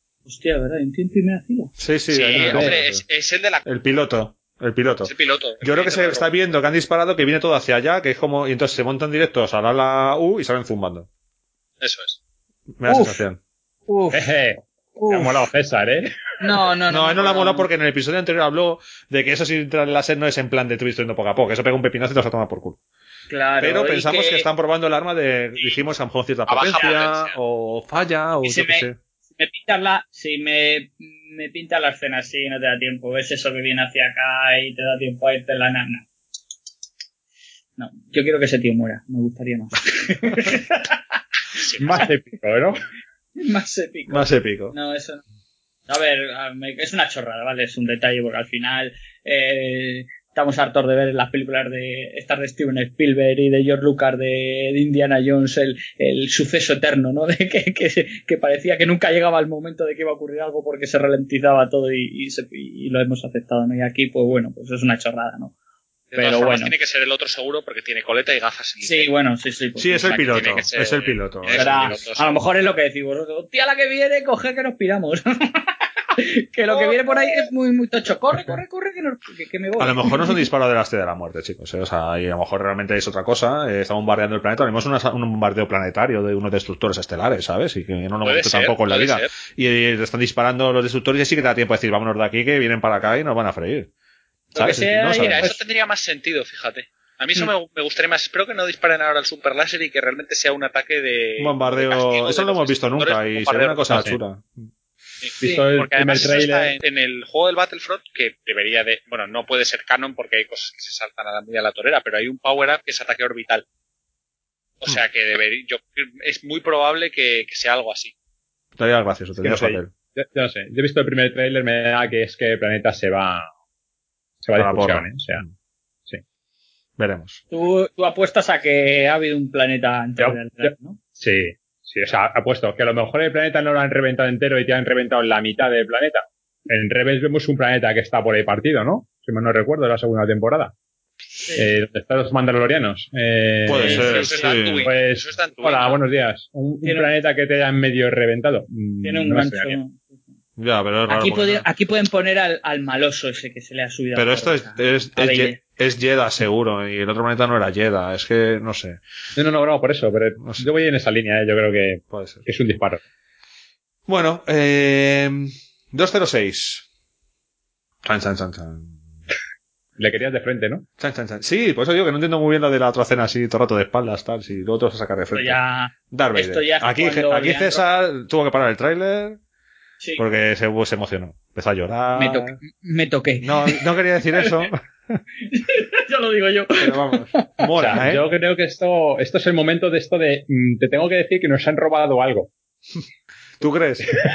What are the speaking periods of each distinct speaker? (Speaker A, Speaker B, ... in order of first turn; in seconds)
Speaker A: 0.3-1.7, 12.8-13.2, 13.9-14.3, 14.9-15.5, 16.4-17.7, 23.3-24.5, 28.4-36.0, 37.8-41.1, 43.4-45.2, 45.9-65.5, 66.1-66.7, 68.8-70.6, 71.5-80.5, 94.5-95.6, 127.5-131.0, 143.8-144.4, 146.8-147.1, 149.0-150.0, 151.1-155.6, 175.3-177.8, 182.1-184.7, 185.4-187.7
Speaker B: 1.8-3.0, 3.6-11.1, 12.8-13.4, 16.9-22.8, 23.6-29.0, 44.1-44.7, 69.8-72.0, 79.8-93.9, 94.5-95.5, 101.4-104.7, 118.8-119.9, 124.5-125.5, 127.0-127.4, 143.6-144.9, 150.6-151.7, 154.1-159.0, 160.4-160.7, 162.1-162.4, 164.1-166.8, 168.0-168.9, 171.0-179.4, 180.2-182.6, 183.4-185.2, 186.8-188.3, 193.6-194.2
Speaker C: 2.1-3.6, 5.0-6.2, 11.8-12.2, 26.5-27.4, 41.6-42.0, 66.1-69.1, 70.0-72.4, 88.2-89.3, 94.6-104.1, 105.2-113.6, 114.8-118.1, 143.8-146.0
Speaker D: 2.4-2.7, 14.1-16.1, 41.8-42.8, 76.7-77.4, 105.4-106.7, 119.4-123.5, 124.4-125.4, 130.2-140.7, 141.5-144.1, 144.8-149.8, 159.3-163.0, 170.0-170.8, 187.7-192.5